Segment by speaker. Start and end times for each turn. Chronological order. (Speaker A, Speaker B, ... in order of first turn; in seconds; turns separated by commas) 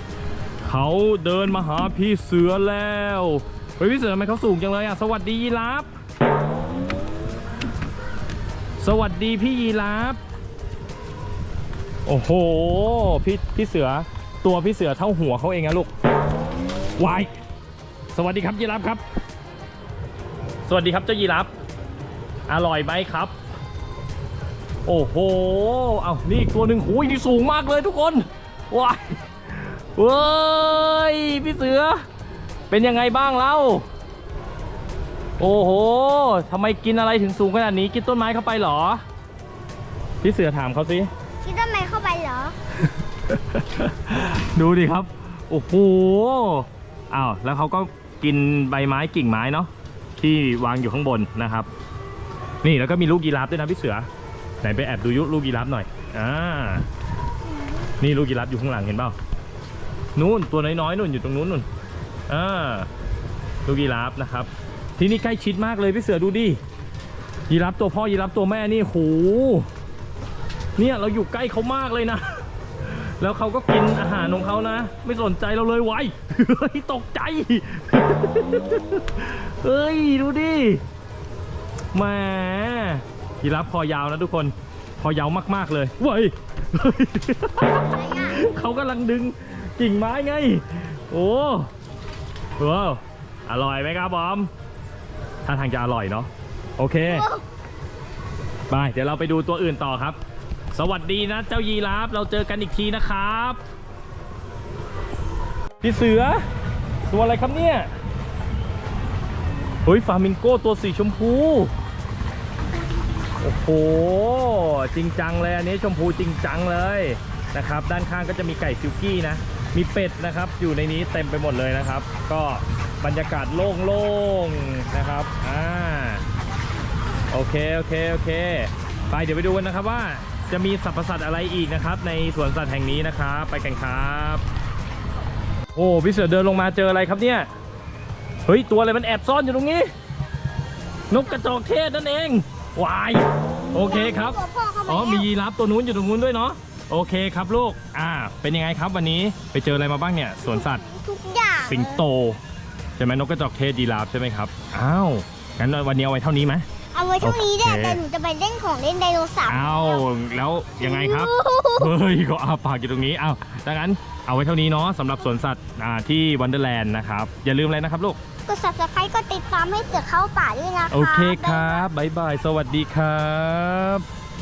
Speaker A: 0.6-5.9, Speaker A: 8.8-10.2, Speaker A: 12.1-15.9, Speaker A: 17.0-17.4, Speaker A: 18.1-19.0, Speaker A: 20.7-21.5, Speaker A: 22.5-23.3, Speaker A: 24.9-32.0, Speaker A: 32.7-33.9, Speaker A: 35.4-39.0, Speaker A: 40.2-41.1, Speaker B: 41.4-42.5, Speaker A: 42.9-51.7, Speaker A: 52.6-54.1, Speaker A: 54.6-56.9, Speaker A: 58.0-59.2, Speaker A: 60.1-61.7, Speaker A: 62.3-62.9, Speaker A: 63.6-66.6, Speaker A: 67.5-69.7, Speaker A: 70.8-80.8, Speaker A: 81.9-91.7, Speaker B: 87.8-88.4, Speaker A: 92.6-94.5, Speaker A: 95.5-97.3, Speaker B: 97.0-97.4, Speaker A: 98.7-100.2, Speaker A: 100.7-103.6, Speaker A: 105.8-106.4, Speaker A: 107.1-107.9, Speaker A: 109.8-111.7, Speaker A: 113.4-126.2, Speaker A: 127.3-134.4, Speaker A: 135.8-137.5, Speaker A: 138.4-139.9, Speaker A: 141.1-150.8, Speaker B: 143.7-145.3, Speaker B: 150.4-152.1, Speaker A: 151.6-152.4, Speaker A: 153.0-156.7, Speaker B: 156.9-160.0, Speaker A: 157.2-158.0, Speaker A: 159.5-168.2, Speaker B: 160.8-161.9, Speaker B: 168.5-171.9, Speaker A: 170.9-174.1